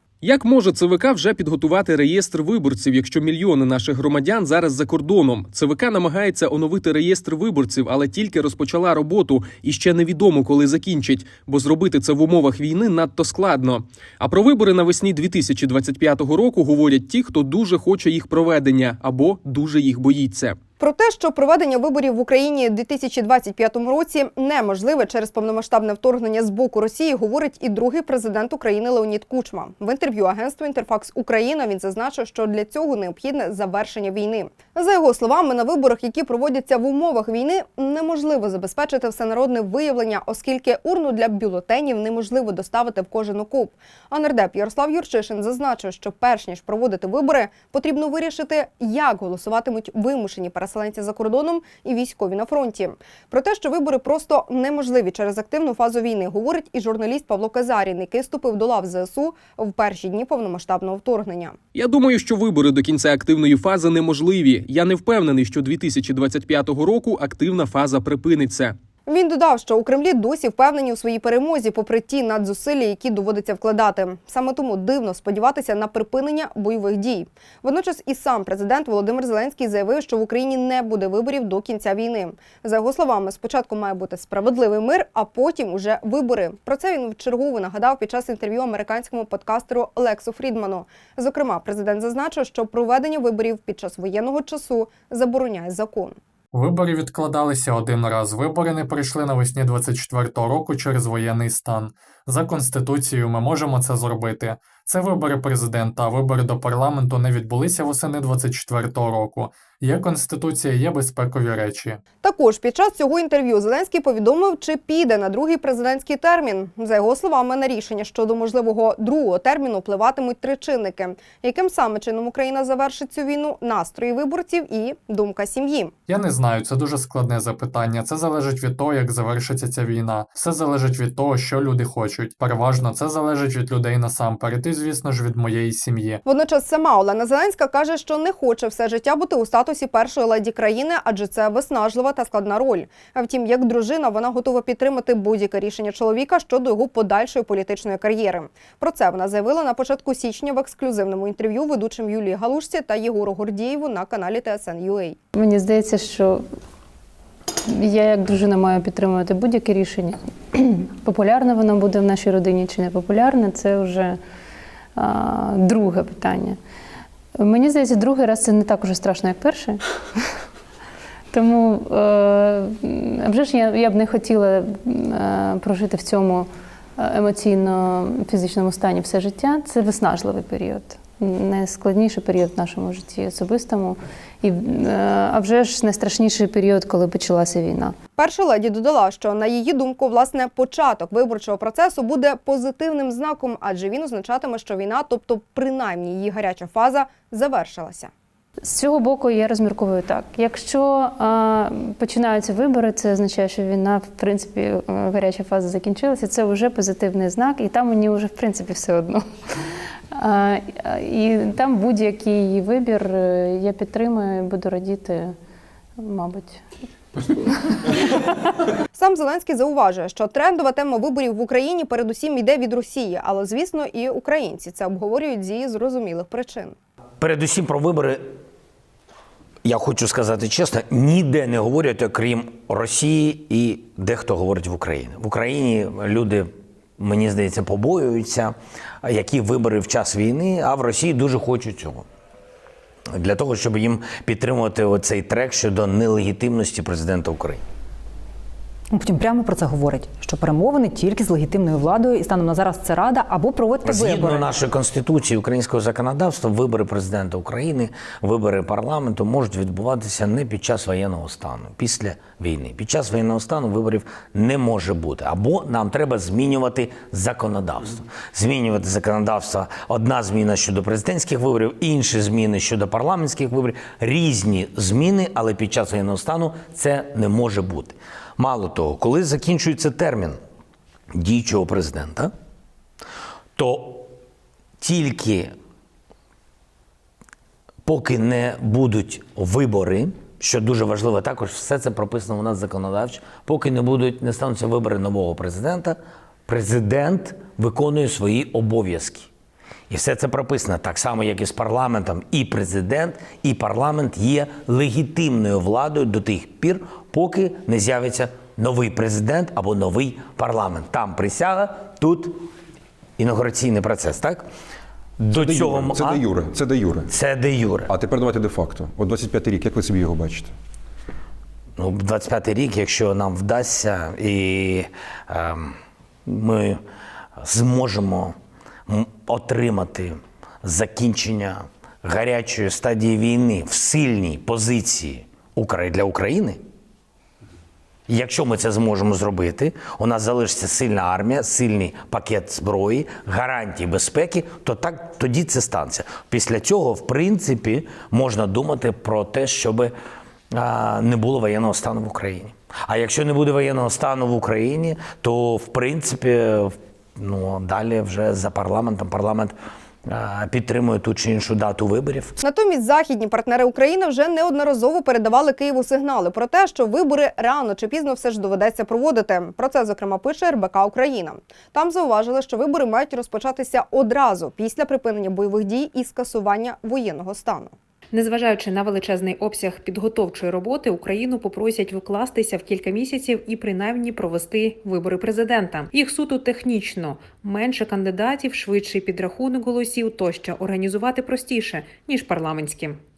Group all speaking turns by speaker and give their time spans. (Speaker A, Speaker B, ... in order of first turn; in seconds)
Speaker A: 0.2-20.6, 61.7-68.7
Speaker B: 20.8-61.5, 69.1-96.2, 112.2-125.9, 136.2-155.2, 188.2-198.1, 218.9-226.8, 362.4-377.7
Speaker C: 96.5-112.0, 126.1-136.2
Speaker D: 155.3-156.4, 157.7-164.2, 165.0-166.6, 167.4-169.8, 171.3-187.9, 198.6-209.2, 210.1-215.3, 216.0-216.6, 217.3-218.2
Speaker E: 227.2-228.2, 229.6-242.0, 243.1-247.6, 253.8-280.4, 281.1-282.3, 283.6-284.1, 284.8-285.5, 287.8-299.3, 299.9-312.4, 313.2-314.4, 315.2-316.2, 317.1-317.9, 321.8-326.8, 327.4-328.3, 328.9-336.6, 338.1-349.9, 350.5-359.5, 360.1-362.3
Speaker F: 248.9-254.4
Speaker G: 315.3-317.1, 317.9-320.5
Speaker H: 378.1-393.0